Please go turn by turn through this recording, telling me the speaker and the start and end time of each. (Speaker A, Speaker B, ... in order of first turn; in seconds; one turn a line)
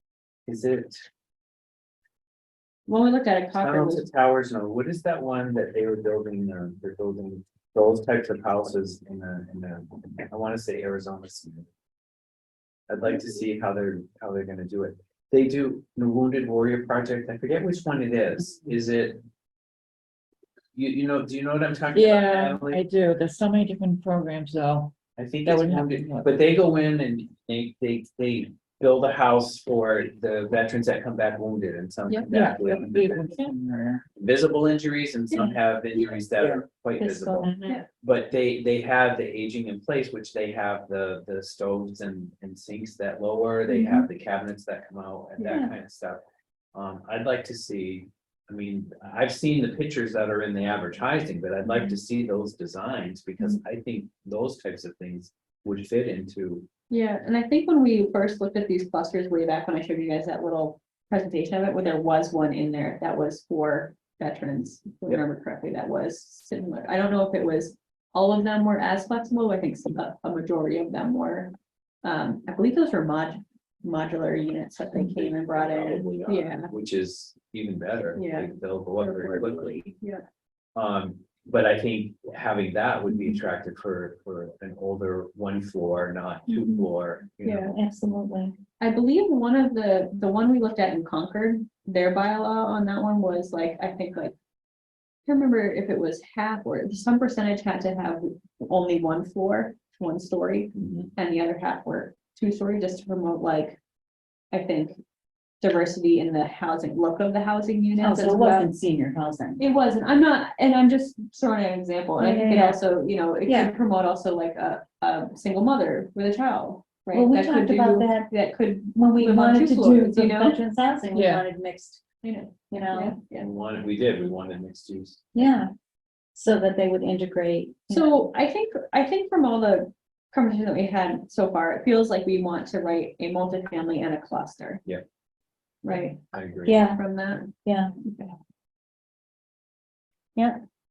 Speaker A: 0.5-1.0
Speaker B: 2.9-4.1
Speaker A: 3.5-11.7
Speaker A: 12.9-19.2
Speaker A: 20.7-22.8
Speaker C: 21.9-26.4
Speaker A: 25.2-33.4
Speaker C: 32.3-34.0
Speaker A: 34.2-46.2
Speaker B: 35.3-35.6
Speaker C: 36.2-36.6
Speaker D: 37.0-37.8
Speaker D: 43.7-44.1
Speaker D: 45.5-45.7
Speaker A: 46.7-56.7
Speaker B: 51.6-52.0
Speaker B: 56.9-76.7
Speaker A: 74.9-79.8
Speaker B: 78.1-80.2
Speaker A: 80.8-87.8
Speaker B: 86.5-86.9
Speaker B: 87.4-87.7
Speaker D: 87.7-88.5
Speaker B: 88.8-94.3
Speaker B: 95.2-103.8
Speaker A: 100.7-101.1
Speaker B: 104.5-105.0
Speaker B: 105.6-108.7
Speaker D: 108.0-109.6
Speaker B: 109.6-120.6
Speaker D: 112.2-112.8
Speaker D: 113.5-113.7
Speaker D: 117.1-118.3
Speaker D: 118.9-122.0
Speaker C: 121.1-121.4
Speaker B: 122.2-123.5
Speaker D: 122.7-123.2
Speaker A: 123.4-125.5
Speaker D: 125.3-125.7
Speaker D: 126.3-128.2
Speaker B: 127.9-134.8
Speaker B: 135.8-136.2
Speaker A: 136.3-136.8
Speaker D: 136.6-137.0
Speaker B: 136.9-138.3
Speaker D: 137.6-137.9